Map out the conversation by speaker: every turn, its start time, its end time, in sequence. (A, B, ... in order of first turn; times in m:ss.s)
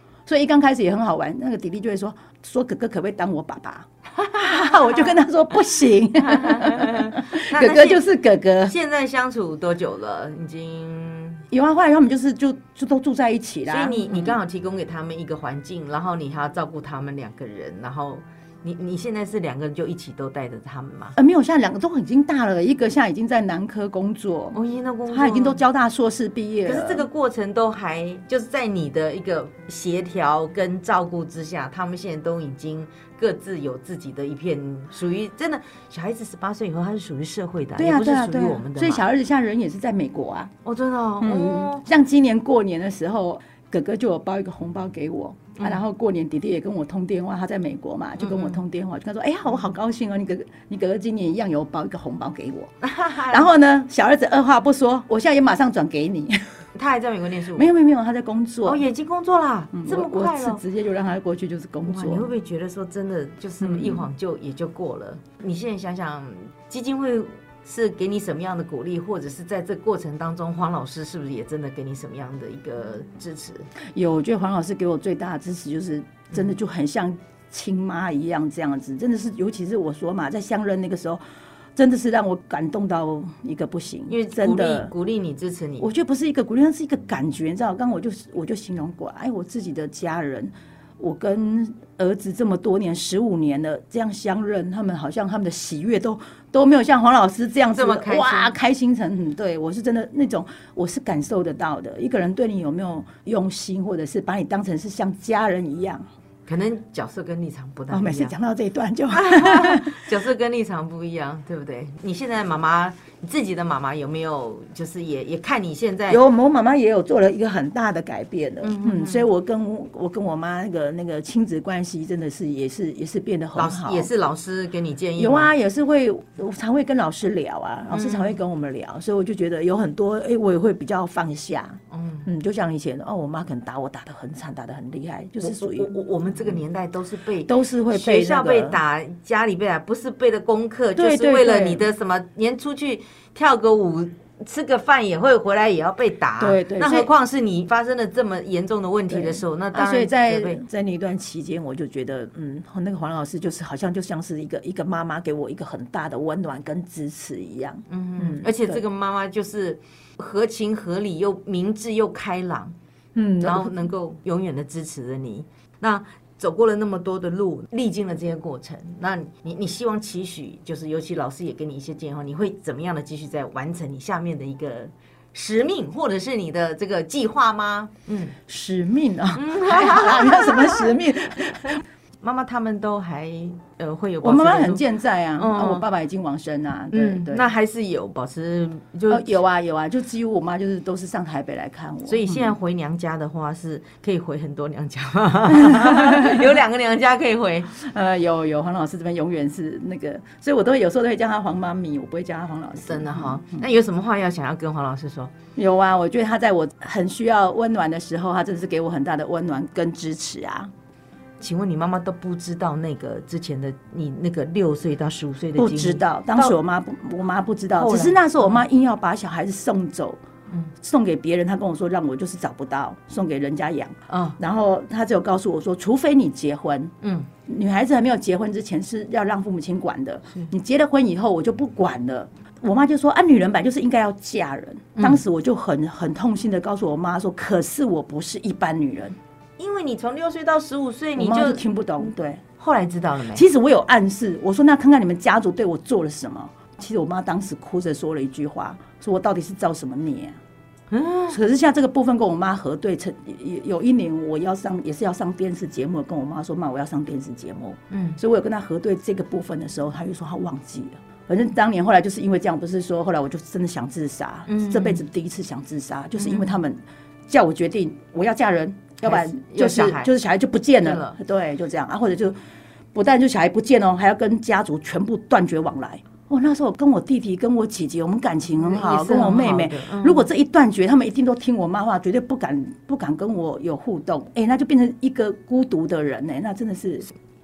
0:00.2-0:08.7 A
0:04.4-0:05.1 B
0:06.2-0:08.1 B
0:08.6-0:11.4 B
0:11.5-0:14.4 A
0:13.7-0:21.1 B
0:21.2-0:27.0 A
0:24.5-0:25.6 B
0:26.6-0:39.0 B
0:37.8-0:40.5 A
0:40.6-0:41.8 B
0:41.2-0:52.7 A
0:48.2-0:48.6 B
0:52.8-0:53.5 B
0:53.3-0:56.4 A
0:56.7-0:57.7 B
0:57.5-0:58.8 A
0:58.6-1:00.6 B
0:59.7-1:02.3 A
1:01.8-1:13.7 B
1:03.6-1:04.1 A
1:13.9-1:21.2 A
1:21.8-1:24.9 A
1:24.1-1:25.9 B
1:25.8-1:46.0 A
1:37.7-1:38.5 B
1:46.5-1:48.3 B
1:47.9-1:50.1 A
1:49.1-1:56.2 B
1:56.1-2:04.1 A
1:58.6-1:59.3 B
2:03.5-2:05.5 B
2:05.2-2:15.9 A
2:07.9-2:08.4 B
2:11.9-2:12.3 B
2:15.4-2:30.6 B
2:17.4-2:18.8 A
2:20.9-2:21.8 A
2:26.4-2:27.1 A
2:29.1-2:38.8 A
2:37.9-2:42.7 B
2:43.2-2:43.8 A
2:43.4-2:58.4 B
2:58.4-3:01.8 A
2:59.3-3:01.1 B
3:01.6-3:04.8 B
3:04.2-3:07.4 A
3:05.4-3:05.8 B
3:06.9-3:09.4 B
3:09.1-3:12.5 A
3:12.1-3:17.7 B
3:15.5-3:16.6 A
3:17.7-3:23.6 A
3:22.8-3:25.3 B
3:25.6-3:30.7 A
3:31.4-3:36.6 B
3:35.6-3:40.2 A
3:37.7-3:38.6 B
3:40.8-3:59.2 A
3:44.1-3:44.4 B
3:47.0-3:47.3 B
3:59.6-4:01.6 B
4:01.2-4:02.4 A
4:02.6-4:03.4 B
4:03.3-4:10.4 A
4:10.9-4:11.4 B
4:11.3-4:32.4 A
4:17.9-4:18.2 B
4:24.5-4:25.0 B
4:26.2-4:26.6 B
4:29.0-4:30.1 B
4:30.8-4:31.2 B
4:32.9-4:47.1 A
4:38.6-4:40.3 B